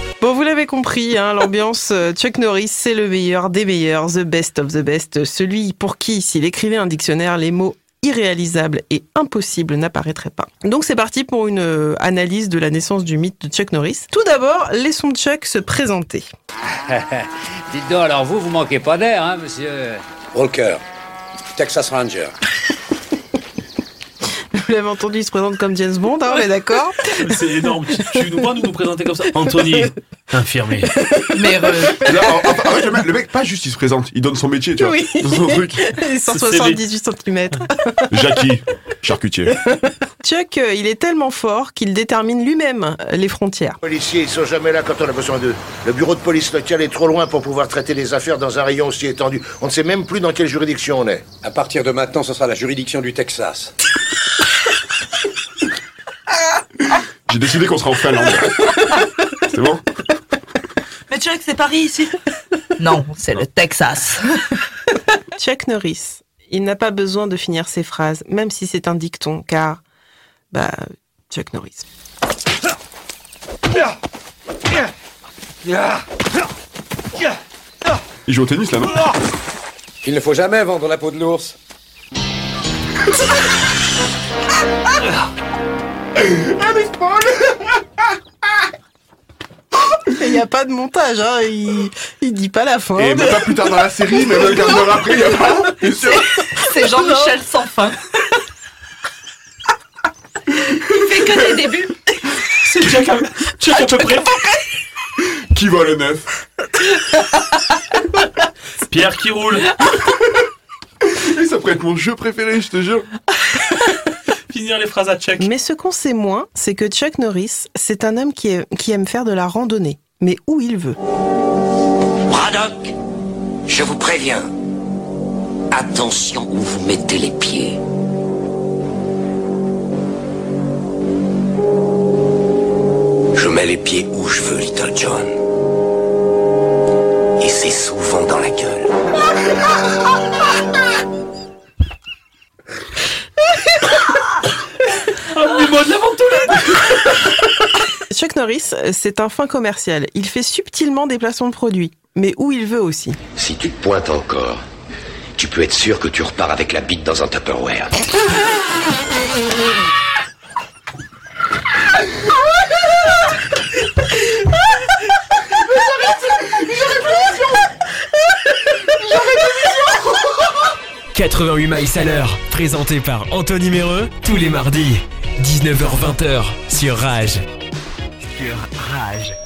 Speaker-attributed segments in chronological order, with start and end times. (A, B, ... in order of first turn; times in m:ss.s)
0:00.2-0:16.3 A
0:16.9-0:20.0 B
0:20.3-0:20.8 C
0:21.6-0:22.3 C
0:24.2-0:27.1 A
0:27.1-0:30.9 D
0:31.3-0:32.0 E
0:32.0-0:35.8 F
0:34.8-0:38.1 A
0:36.3-0:36.8 D
0:38.1-0:39.6 F
0:40.2-0:43.8 A
0:43.8-0:51.2 G
0:51.4-0:53.7 C
0:57.3-0:59.8 F
1:01.1-1:02.1 E
1:02.8-1:04.3 E
1:05.3-1:09.8 A
1:10.5-1:11.8 A
1:18.2-1:19.0 F
1:20.0-1:21.6 C
1:26.3-1:27.5 F
1:30.0-1:34.6 A
1:33.0-1:36.4 F
1:35.8-1:38.0 E
1:40.6-1:42.4 E
1:42.6-1:44.4 D
1:45.3-1:46.3 F
1:48.9-1:49.7 D
1:51.0-1:53.1 F
1:54.5-1:55.5 D
1:55.4-2:01.0 A
2:02.3-2:02.9 H
2:03.7-2:04.5 H
2:05.7-2:07.8 H
2:13.3-2:15.4 H
2:17.4-2:18.9 H
2:25.1-2:27.1 D
2:28.1-2:33.2 A
2:33.3-2:34.6 H
2:35.4-2:38.0 H
2:46.4-2:47.3 F
2:49.1-2:49.8 F
2:51.1-2:57.4 I
2:58.2-2:59.3 I